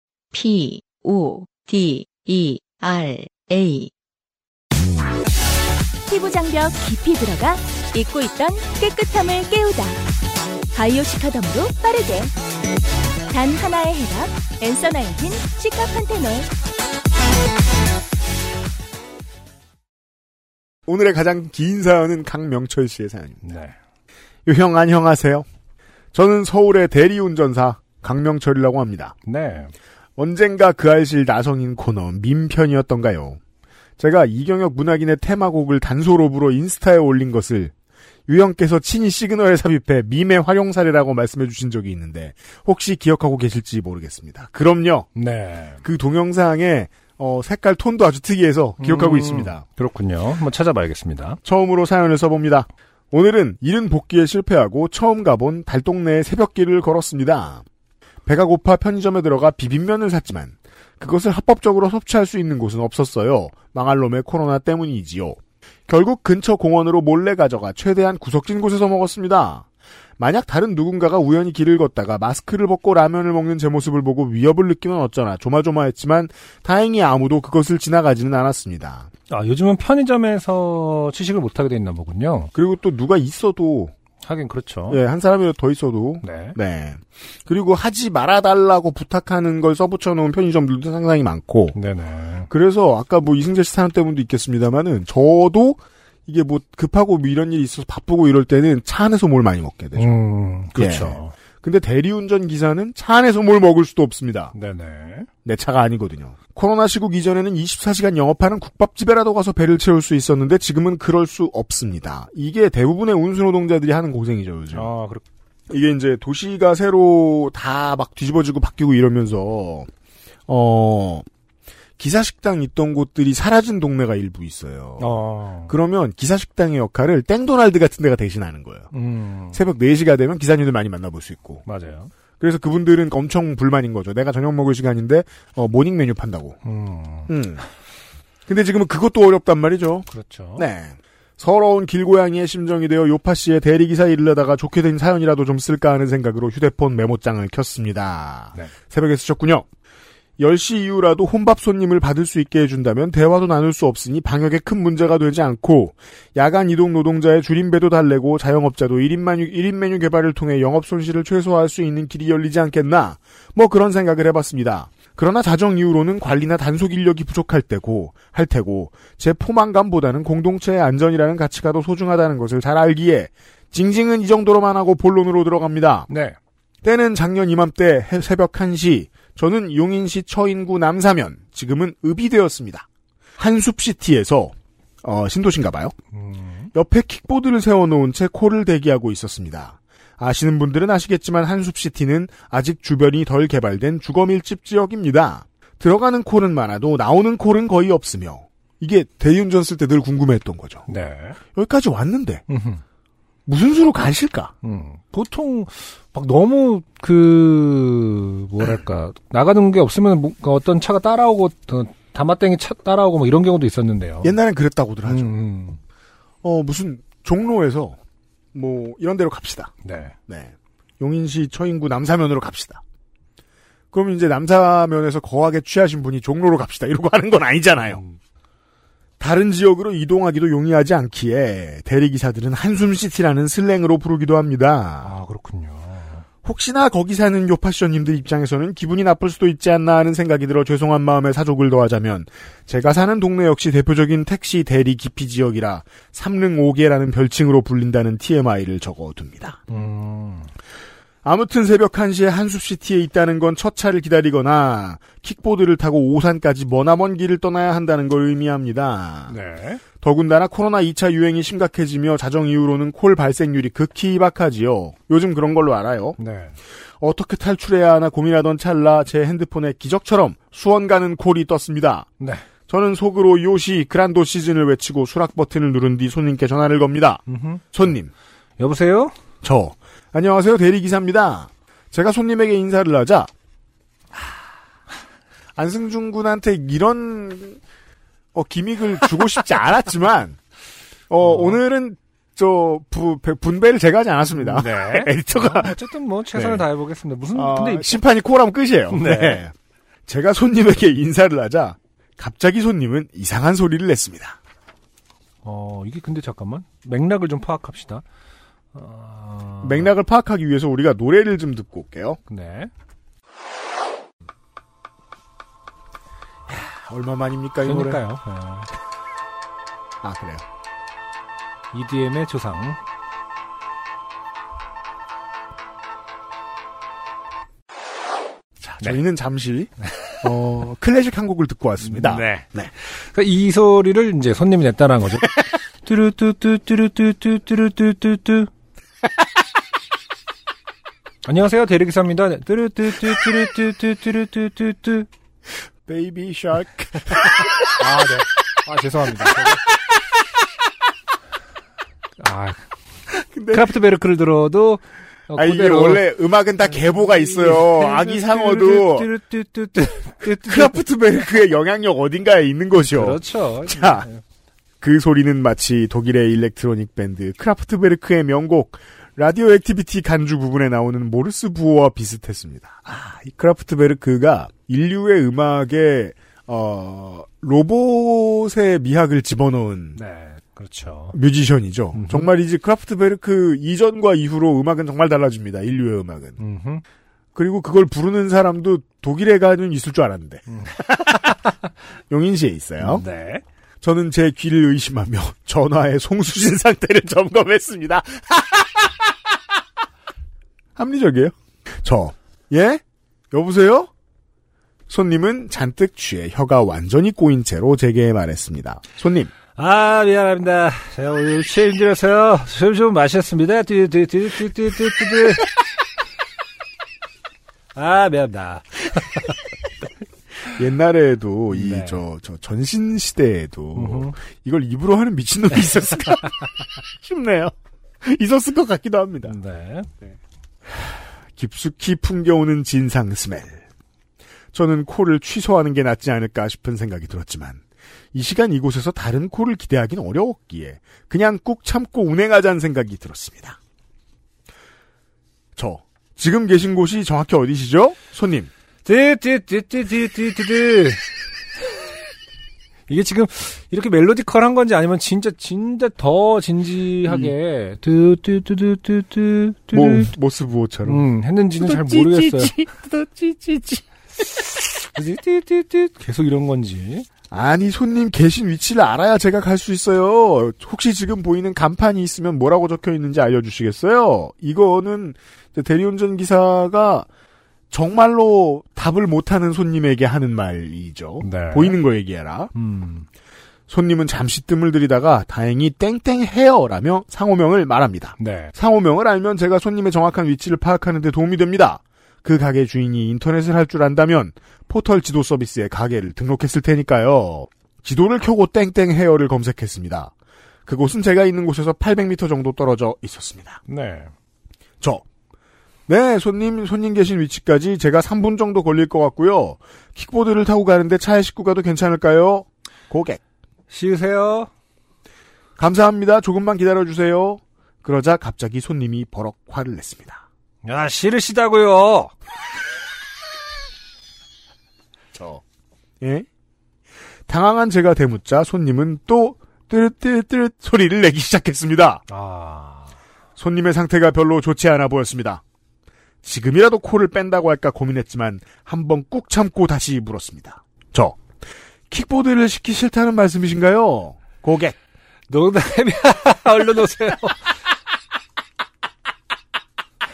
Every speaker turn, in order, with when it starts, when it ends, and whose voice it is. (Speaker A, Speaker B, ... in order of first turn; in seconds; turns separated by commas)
Speaker A: 0.3-3.9, Speaker B: 6.1-10.0, Speaker B: 10.7-12.3, Speaker B: 13.3-16.5, Speaker C: 20.9-23.4, Speaker D: 23.4-23.8, Speaker C: 24.5-25.5, Speaker C: 26.1-29.1, Speaker D: 29.3-29.7, Speaker C: 30.2-33.4, Speaker C: 34.0-37.7, Speaker C: 38.3-45.1, Speaker D: 45.1-45.8, Speaker C: 45.8-49.6, Speaker D: 48.8-51.4, Speaker C: 51.5-57.6, Speaker C: 58.3-69.7, Speaker C: 70.2-79.1, Speaker D: 79.3-82.5, Speaker C: 82.5-83.9, Speaker D: 84.2-85.0, Speaker C: 84.9-91.8, Speaker D: 86.2-86.6, Speaker D: 91.7-92.5, Speaker C: 92.5-100.1, Speaker D: 100.0-101.3, Speaker C: 100.7-104.5, Speaker D: 104.5-105.3, Speaker C: 105.5-114.9, Speaker D: 114.7-115.2, Speaker C: 115.7-119.9, Speaker C: 120.5-121.3, Speaker C: 122.0-125.2, Speaker D: 125.0-125.8, Speaker C: 125.7-128.9, Speaker D: 128.9-129.6, Speaker C: 129.5-131.6, Speaker D: 131.7-132.1, Speaker C: 132.4-136.6, Speaker D: 136.6-137.3, Speaker C: 137.3-137.6, Speaker C: 138.5-149.7, Speaker D: 140.1-140.7, Speaker C: 150.4-176.1, Speaker D: 176.1-176.4, Speaker C: 176.8-182.9, Speaker C: 183.4-185.9, Speaker D: 186.1-186.7, Speaker C: 186.7-200.8, Speaker D: 200.9-201.4, Speaker C: 201.5-202.4, Speaker D: 202.5-202.8, Speaker C: 203.5-204.5, Speaker D: 204.6-214.3, Speaker C: 214.2-215.3, Speaker D: 215.1-215.8, Speaker C: 216.4-218.0, Speaker C: 218.5-219.7, Speaker D: 219.8-220.2, Speaker C: 220.3-222.8, Speaker C: 223.9-228.0, Speaker D: 227.9-228.2, Speaker C: 229.2-235.1, Speaker D: 235.0-236.2, Speaker C: 236.4-249.6, Speaker D: 249.7-250.5, Speaker C: 251.2-259.3, Speaker D: 259.3-259.8, Speaker C: 260.0-266.2, Speaker D: 266.2-266.6, Speaker C: 267.0-272.1, Speaker D: 272.2-272.5, Speaker C: 272.7-277.2, Speaker D: 277.3-277.6, Speaker C: 277.7-278.1, Speaker D: 278.6-279.1, Speaker C: 279.4-283.3, Speaker C: 285.6-287.6, Speaker C: 288.3-290.4, Speaker C: 291.1-295.8, Speaker D: 291.2-291.6, Speaker D: 294.4-298.0, Speaker C: 296.4-296.6, Speaker C: 297.3-299.5, Speaker D: 298.9-299.4, Speaker C: 300.1-304.4, Speaker D: 305.4-308.0, Speaker D: 308.7-309.9, Speaker C: 309.6-312.2, Speaker D: 312.3-312.7, Speaker C: 316.5-318.0, Speaker D: 317.6-318.7, Speaker C: 320.0-320.4, Speaker D: 321.7-322.8, Speaker C: 328.6-329.7, Speaker C: 330.2-332.7, Speaker D: 331.8-338.5, Speaker D: 341.2-345.1, Speaker C: 345.9-347.7, Speaker D: 347.8-349.6, Speaker D: 352.2-352.6, Speaker C: 353.1-353.8, Speaker D: 353.5-356.1, Speaker C: 355.4-359.1, Speaker D: 356.7-360.8, Speaker C: 360.4-364.1, Speaker D: 362.9-364.2, Speaker C: 364.8-380.0, Speaker D: 380.0-381.2, Speaker C: 381.1-386.4, Speaker D: 381.9-382.3, Speaker D: 386.4-386.8, Speaker C: 387.4-391.3, Speaker C: 392.1-393.0, Speaker D: 392.8-393.4, Speaker C: 393.8-399.1, Speaker C: 400.8-403.9, Speaker C: 404.9-409.3, Speaker D: 409.6-415.5, Speaker D: 417.8-419.4, Speaker C: 420.5-429.4, Speaker D: 421.5-422.0, Speaker D: 423.8-424.2, Speaker D: 429.2-429.9, Speaker C: 430.7-433.6, Speaker C: 434.5-437.6, Speaker C: 438.1-443.6, Speaker C: 445.6-448.5, Speaker D: 448.9-451.1, Speaker D: 452.9-460.1, Speaker C: 457.1-457.3, Speaker C: 459.7-461.0, Speaker D: 460.9-462.6, Speaker C: 461.6-463.9, Speaker D: 464.8-467.1, Speaker C: 467.3-477.1, Speaker C: 477.7-482.5, Speaker D: 481.2-481.8, Speaker D: 482.5-483.1, Speaker C: 483.7-500.1, Speaker D: 488.2-488.5, Speaker C: 500.7-503.6, Speaker D: 503.7-504.1, Speaker C: 505.9-513.2, Speaker D: 513.7-514.5, Speaker C: 515.6-520.2, Speaker D: 520.6-522.1, Speaker C: 525.1-525.4, Speaker C: 526.0-526.3, Speaker C: 527.3-532.0, Speaker D: 532.1-532.9, Speaker C: 533.4-535.4, Speaker C: 536.2-541.2, Speaker C: 541.9-544.8, Speaker D: 545.3-547.5